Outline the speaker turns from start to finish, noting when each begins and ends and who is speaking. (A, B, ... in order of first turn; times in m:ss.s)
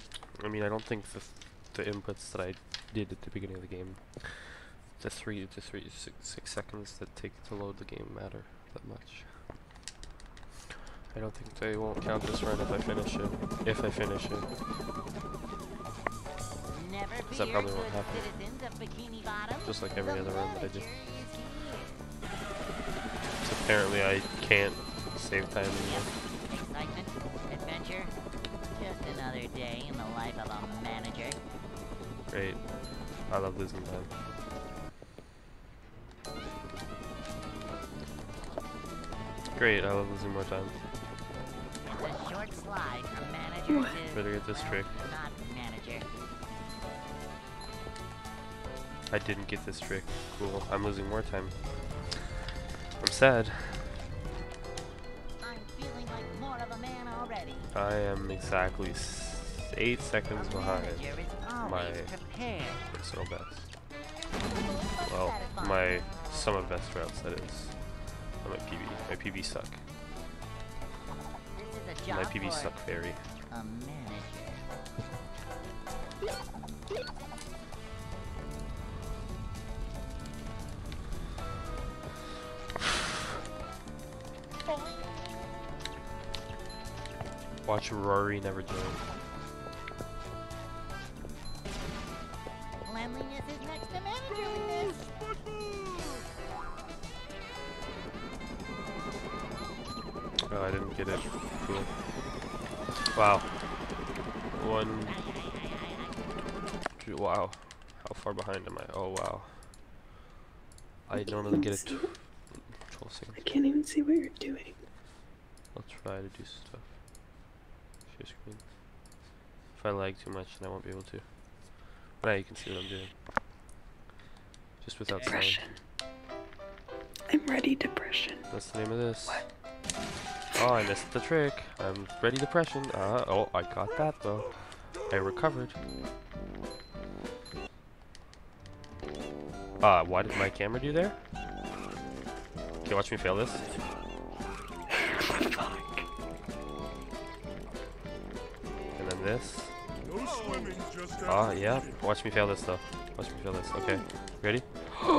0:00.4-0:09.3 A
0:11.1-0:14.5 A
0:16.7-0:21.9 B
0:17.3-0:18.2 A
0:19.6-0:20.9 A
0:23.4-0:26.1 A
0:25.8-0:28.1 B
0:28.7-0:31.4 B
0:32.3-0:32.6 A
0:33.3-0:34.1 A
0:39.6-0:40.7 A
0:41.8-0:46.1 B
0:43.7-0:44.0 C
0:44.1-0:44.9 A
0:49.1-0:51.5 A
0:53.0-0:54.0 A
0:55.4-0:57.7 B
0:57.7-1:02.1 A
1:00.3-1:02.9 B
1:02.9-1:03.7 A
1:04.4-1:06.0 B
1:05.0-1:09.8 A
1:11.6-1:12.8 B
1:12.1-1:13.2 A
1:13.5-1:14.6 B
1:24.7-1:25.2 B
1:27.6-1:29.0 A
1:32.8-1:35.1 B
1:40.5-1:41.9 A
1:43.1-1:43.5 A
1:44.5-1:45.2 A
1:45.1-1:45.9 B
1:47.0-1:49.6 A
1:51.1-1:53.4 A
1:51.2-1:52.1 C
1:53.4-1:54.8 C
1:55.7-1:56.9 A
1:58.1-1:58.6 A
1:59.8-2:01.3 A
2:02.2-2:03.1 A
2:04.8-2:05.7 A
2:05.2-2:05.7 C
2:07.3-2:08.5 C
2:08.5-2:09.4 A
2:10.6-2:15.7 A
2:19.8-2:21.2 A
2:22.8-2:23.6 A
2:24.9-2:26.0 C
2:29.0-2:29.7 A
2:31.2-2:34.7 A